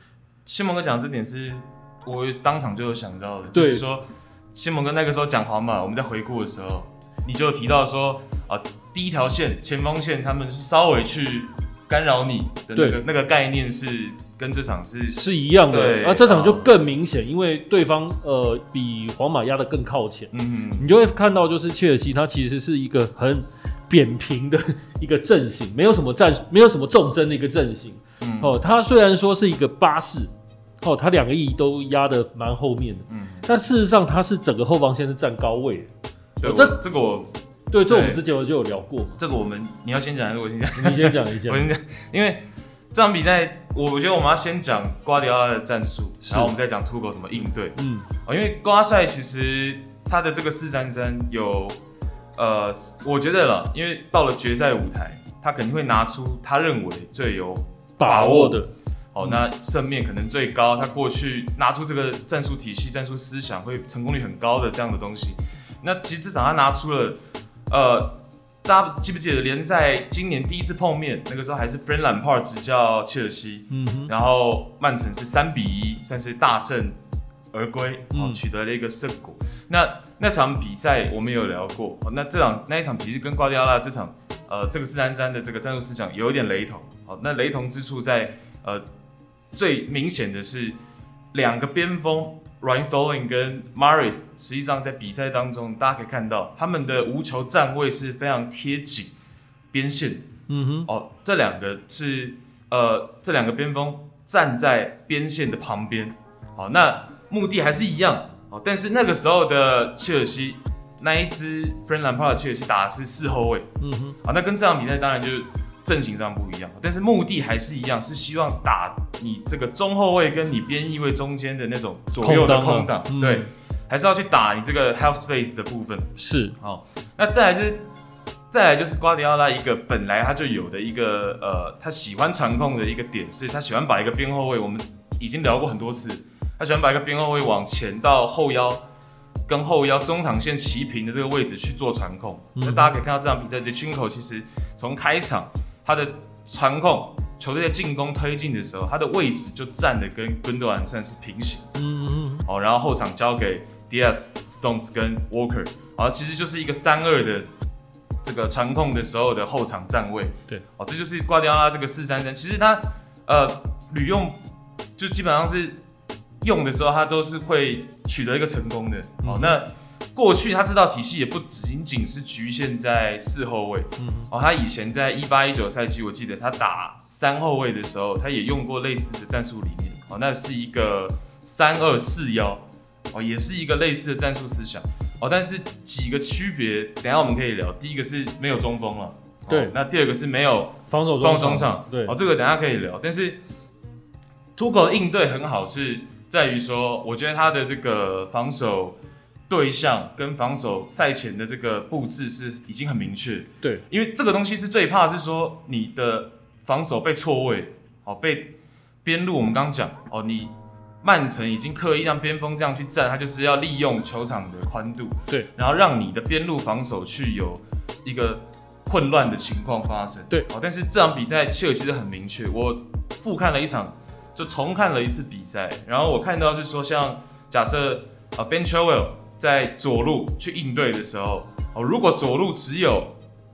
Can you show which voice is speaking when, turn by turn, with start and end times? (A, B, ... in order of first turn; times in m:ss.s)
0:00.5-0:16.7 A
0:03.5-0:03.8 B
0:12.8-0:13.0 B
0:15.1-0:36.9 B
0:20.3-0:21.0 A
0:28.2-0:28.6 A
0:33.1-0:33.4 A
0:36.4-0:37.4 A
0:37.7-0:39.2 B
0:37.9-0:38.2 A
0:39.2-0:51.8 A
0:40.8-0:41.7 B
0:46.2-0:46.5 B
0:47.8-0:48.1 B
0:52.4-1:17.0 A
0:58.0-0:58.7 B
1:13.7-1:14.1 B
1:17.5-1:28.8 A
1:18.1-1:18.4 B
1:29.5-1:30.8 A
1:31.3-1:39.1 A
1:39.7-1:40.3 A
1:40.5-1:40.9 B
1:40.9-1:53.7 A
1:53.8-1:54.2 B
1:54.2-2:07.9 A
2:02.2-2:03.5 B
2:06.2-2:06.6 B
2:08.5-2:18.8 A
2:19.5-2:31.7 A
2:22.6-2:22.9 B
2:31.8-2:32.4 B
2:32.5-2:37.5 A
2:38.2-2:44.4 A
2:45.0-2:45.8 A
2:46.4-3:13.4 A
2:49.2-2:49.6 B
2:54.0-2:54.3 B
3:10.9-3:12.2 B
3:14.6-3:19.0 A
3:19.5-3:53.1 A